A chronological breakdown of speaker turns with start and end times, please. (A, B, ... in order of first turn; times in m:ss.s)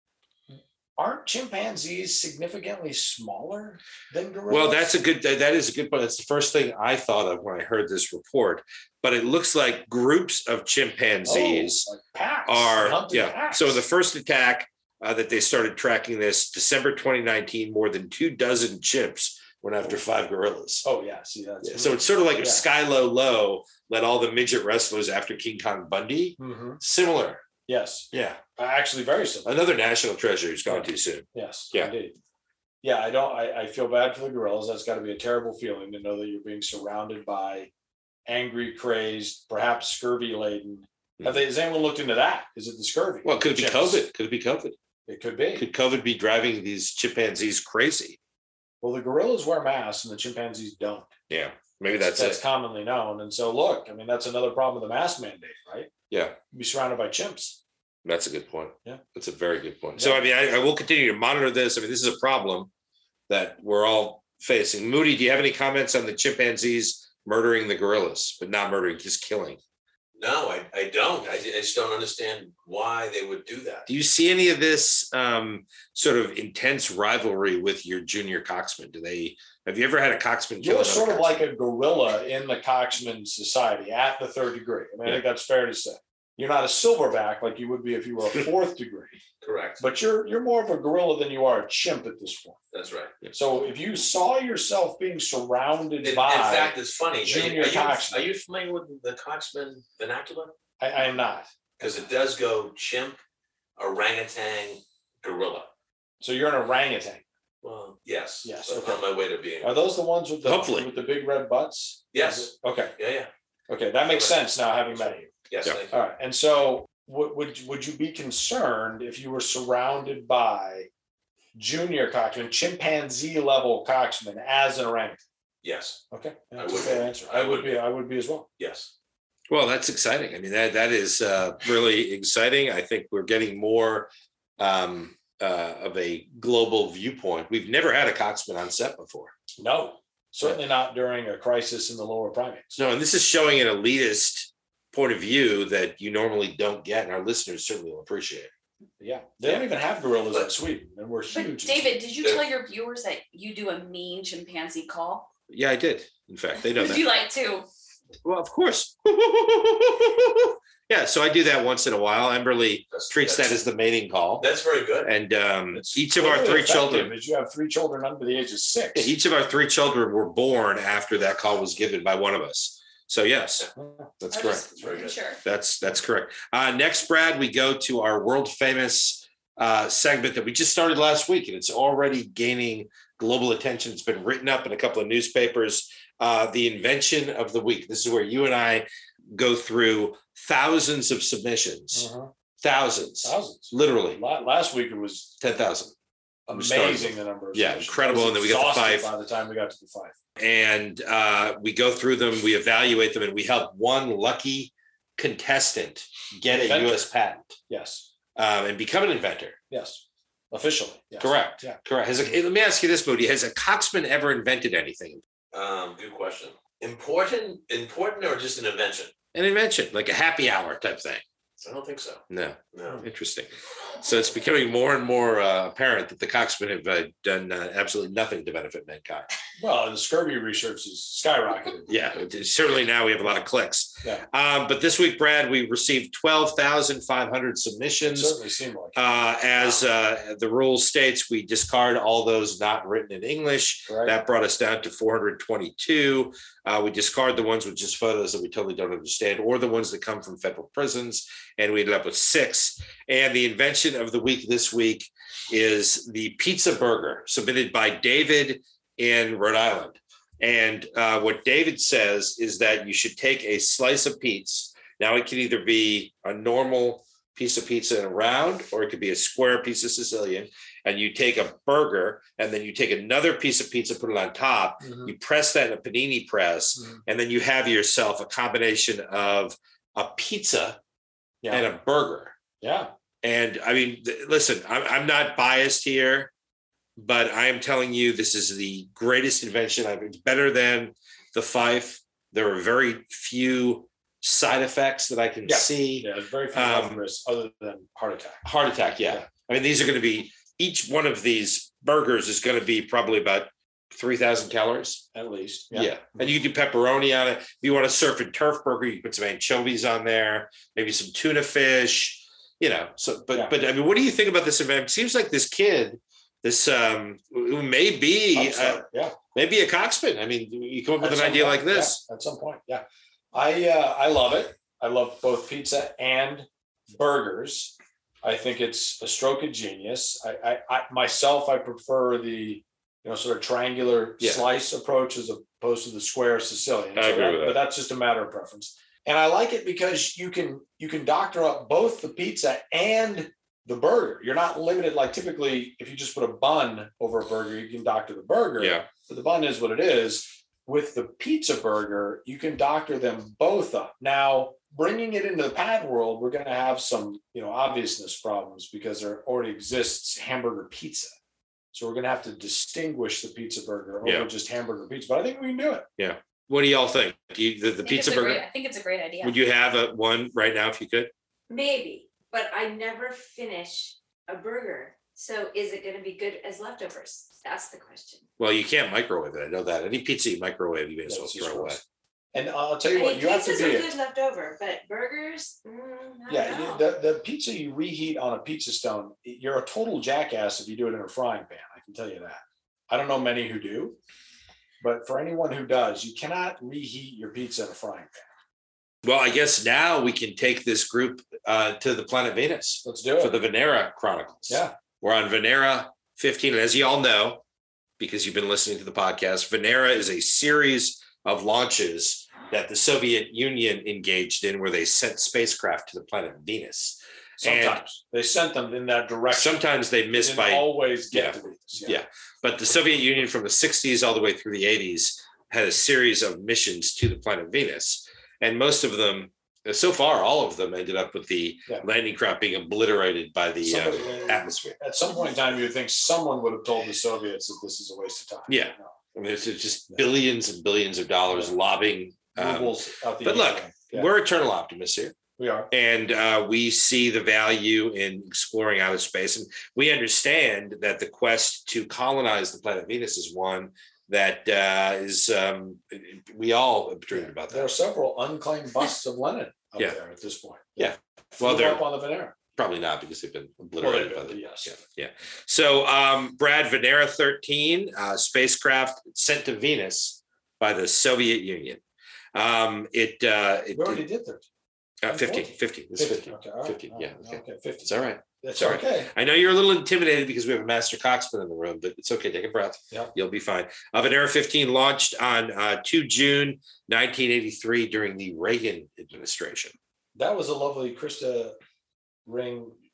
0:00.5-0:04.9 A
0:04.5-0:11.9 B
0:11.2-0:13.8 A
0:12.5-0:20.9 B
0:20.8-0:22.6 A
0:21.6-0:27.4 B
0:26.4-0:26.8 A
0:27.7-0:29.5 A
0:28.1-0:28.4 B
0:29.4-0:31.9 B
0:30.7-0:32.2 A
0:32.8-0:37.7 A
0:38.3-0:44.0 A
0:43.2-0:44.8 B
0:45.1-0:45.6 A
0:45.6-0:48.2 B
0:48.8-0:51.1 A
0:51.3-0:52.4 B
0:51.9-0:55.9 A
0:56.1-0:56.4 B
0:56.5-0:57.6 A
0:58.0-1:02.7 B
1:00.0-1:00.3 A
1:03.3-1:09.6 B
1:10.2-1:13.9 C
1:13.9-1:21.5 B
1:20.6-1:29.2 A
1:29.4-1:29.8 C
1:29.8-1:32.6 A
1:32.7-1:33.2 C
1:33.3-1:38.2 A
1:36.0-1:40.5 C
1:40.8-1:41.5 A
1:41.8-1:43.2 C
1:43.8-1:45.7 C
1:46.2-1:47.2 A
1:47.6-1:49.9 C
1:48.4-1:49.0 A
1:49.6-1:53.0 A
1:50.4-1:50.9 B
1:52.1-1:53.3 C
1:53.7-1:55.2 A
1:54.0-1:56.0 C
1:55.9-2:00.9 A
2:01.6-2:05.2 A
2:05.6-2:06.0 C
2:06.1-2:08.5 A
2:06.6-2:07.8 C
2:08.6-2:08.9 C
2:09.5-2:19.3 B
2:19.6-2:22.8 A
2:22.8-2:28.5 B
2:29.0-2:32.0 A
2:31.3-2:35.3 D
2:35.5-2:37.0 B
2:36.6-2:37.7 D
2:38.2-2:44.5 B
2:42.9-2:43.6 C
2:44.4-2:45.1 C
2:45.0-2:47.1 B
2:45.7-2:49.1 A
2:49.0-2:54.7 B
2:53.8-2:54.1 A
2:54.3-2:55.4 D
2:54.8-2:55.2 C
2:55.4-3:12.1 B
3:11.9-3:12.3 A
3:12.6-3:14.2 B
3:13.2-3:15.3 A
3:15.4-3:15.9 B
3:16.5-3:20.2 A
3:16.5-3:19.1 B
3:20.4-3:27.6 B
3:26.5-3:27.0 A
3:27.7-3:28.1 A
3:28.4-3:29.6 B
3:29.7-3:31.8 A
3:31.2-3:35.2 B
3:35.5-3:39.1 C
3:39.3-3:41.2 B
3:41.6-3:43.0 C
3:42.3-3:49.3 B
3:49.6-3:51.9 A
3:51.9-3:58.4 B
3:58.1-3:59.8 A
3:59.0-4:40.8 B
4:03.9-4:04.2 A
4:34.8-4:35.1 A
4:36.8-4:37.0 A
4:41.4-4:41.7 A
4:41.5-4:42.4 B
4:42.6-4:42.9 A
4:43.2-4:46.3 B
4:47.0-4:57.0 B
4:55.4-4:58.4 A
4:58.4-5:05.0 B
5:05.1-5:06.0 A
5:05.7-5:18.8 B
5:18.3-5:19.2 A
5:19.4-5:22.0 B
5:21.0-6:01.2 A
5:34.2-5:34.5 B
5:37.0-5:37.6 B
5:48.6-5:48.9 B
6:01.7-6:05.9 A
6:04.0-6:04.3 B
6:06.0-6:08.4 B
6:07.8-6:09.4 D
6:09.2-6:11.1 B
6:11.5-6:18.2 E
6:18.4-6:21.8 B
6:21.1-6:21.8 A
6:22.3-6:23.9 A
6:22.9-6:26.9 E
6:26.3-6:34.0 A
6:34.8-6:38.3 A
6:39.0-6:47.4 B
6:42.8-6:43.4 A
6:44.5-6:44.8 A
6:48.0-6:57.8 B
6:57.4-6:59.6 A
6:59.3-7:14.8 B
7:00.1-7:02.0 A
7:13.6-7:18.9 A
7:18.5-7:25.2 B
7:22.4-7:24.1 A
7:25.4-7:25.7 A
7:25.7-7:37.7 B
7:37.1-7:42.4 A
7:40.8-7:41.8 B
7:42.6-7:51.8 B
7:43.8-7:44.8 A
7:52.3-7:54.0 B
7:53.7-7:54.4 A
7:55.0-8:09.8 B
7:55.1-7:59.1 A
8:10.2-8:11.6 A
8:12.3-8:12.8 A